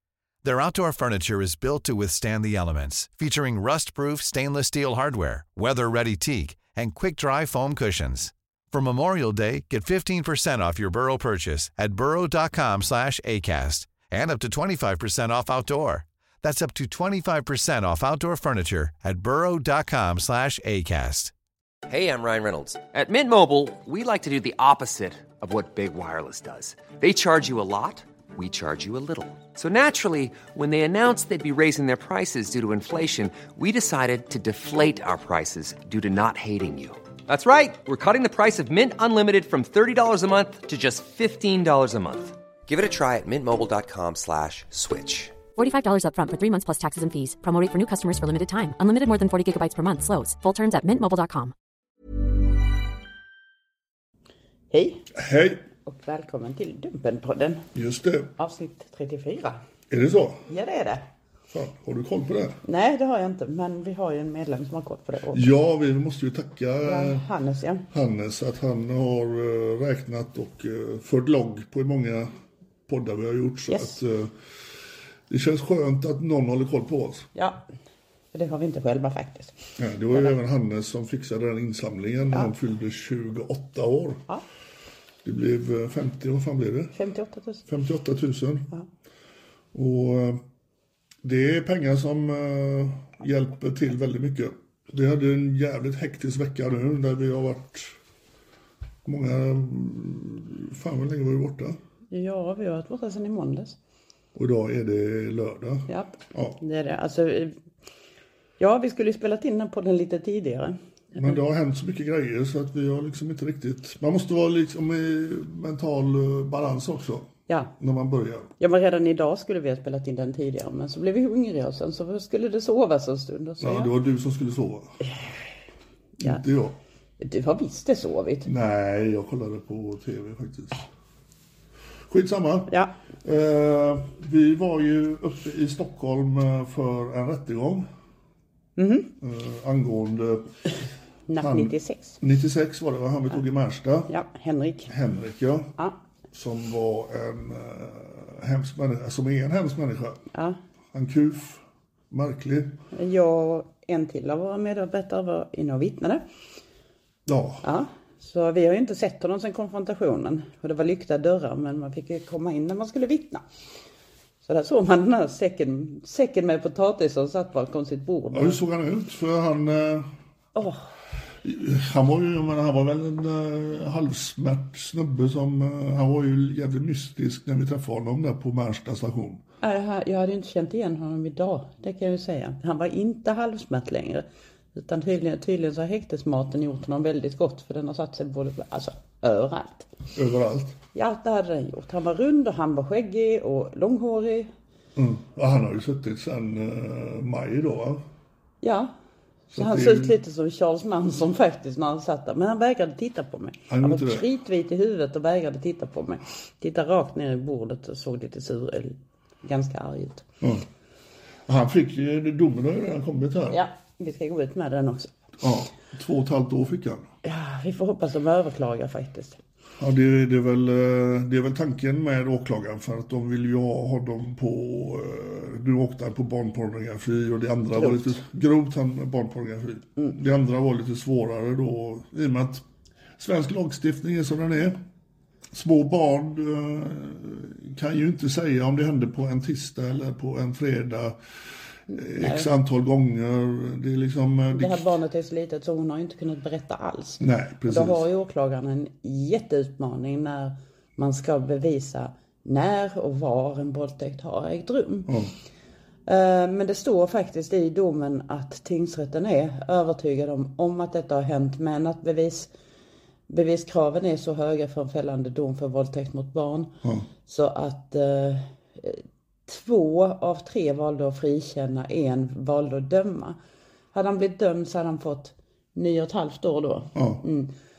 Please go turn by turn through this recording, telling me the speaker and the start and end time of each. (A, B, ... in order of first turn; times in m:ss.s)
0:00.4-0:21.3 A
0:21.9-0:45.4 B
0:45.6-0:51.5 C
0:54.7-0:55.0 D
0:55.1-0:55.6 E
0:55.9-0:57.6 D
0:57.8-0:58.3 E
0:58.4-0:59.6 D
0:59.9-1:00.4 E
1:00.5-1:01.0 D
1:01.5-1:02.6 E
1:02.6-1:05.4 D
1:05.3-1:07.2 E
1:06.8-1:07.8 D
1:07.9-1:12.3 E
1:12.9-1:14.3 E
1:13.7-1:14.0 D
1:15.3-1:17.3 E
1:17.4-1:17.6 D
1:18.3-1:19.5 D
1:19.8-1:24.2 E
1:25.2-1:26.9 E
1:27.0-1:27.6 D
1:27.7-1:28.7 E
1:29.7-1:30.4 E
1:31.2-1:38.0 E
1:39.0-1:41.8 E
1:42.1-1:43.8 D
1:44.4-1:46.6 E
1:45.9-1:47.5 D
1:48.6-1:50.8 D
1:51.2-1:58.5 E
1:58.6-2:03.9 D
2:03.6-2:05.0 E
2:06.2-2:06.8 E
2:07.2-2:08.5 D
2:08.4-2:10.9 E
2:12.1-2:12.7 E
2:13.2-2:17.9 E
2:18.8-2:19.1 D
2:19.2-2:20.5 E
2:21.3-2:22.2 D
2:21.4-2:24.1 E
2:24.1-2:24.9 D
2:24.9-2:25.7 E
2:26.3-2:30.2 E
2:30.9-2:32.8 E
2:32.9-2:36.2 D
2:37.3-2:37.6 E
2:37.6-2:43.4 D
2:44.4-2:48.6 D
2:48.3-2:50.1 E
2:51.4-2:59.4 E
2:59.6-3:09.9 D
3:10.2-3:10.8 E
3:11.0-3:14.5 D
3:15.0-3:18.0 E
3:18.6-3:18.9 D
3:19.5-3:20.2 E
3:19.5-3:30.2 D
3:23.7-3:24.3 E
3:31.5-3:33.6 E
3:33.5-3:35.1 D
3:35.4-3:37.1 E
3:37.2-3:39.4 D
3:39.8-3:52.6 E
3:47.8-3:48.1 D
3:53.2-3:54.8 E
3:55.5-4:01.2 E
4:01.9-4:02.5 D
4:02.0-4:04.9 E
4:04.5-4:15.1 D
4:07.2-4:08.0 E
4:15.1-4:15.3 E
4:16.1-4:22.5 D
4:23.3-4:26.7 D
4:27.3-4:33.4 D
4:33.9-4:37.5 D
4:37.0-4:37.2 E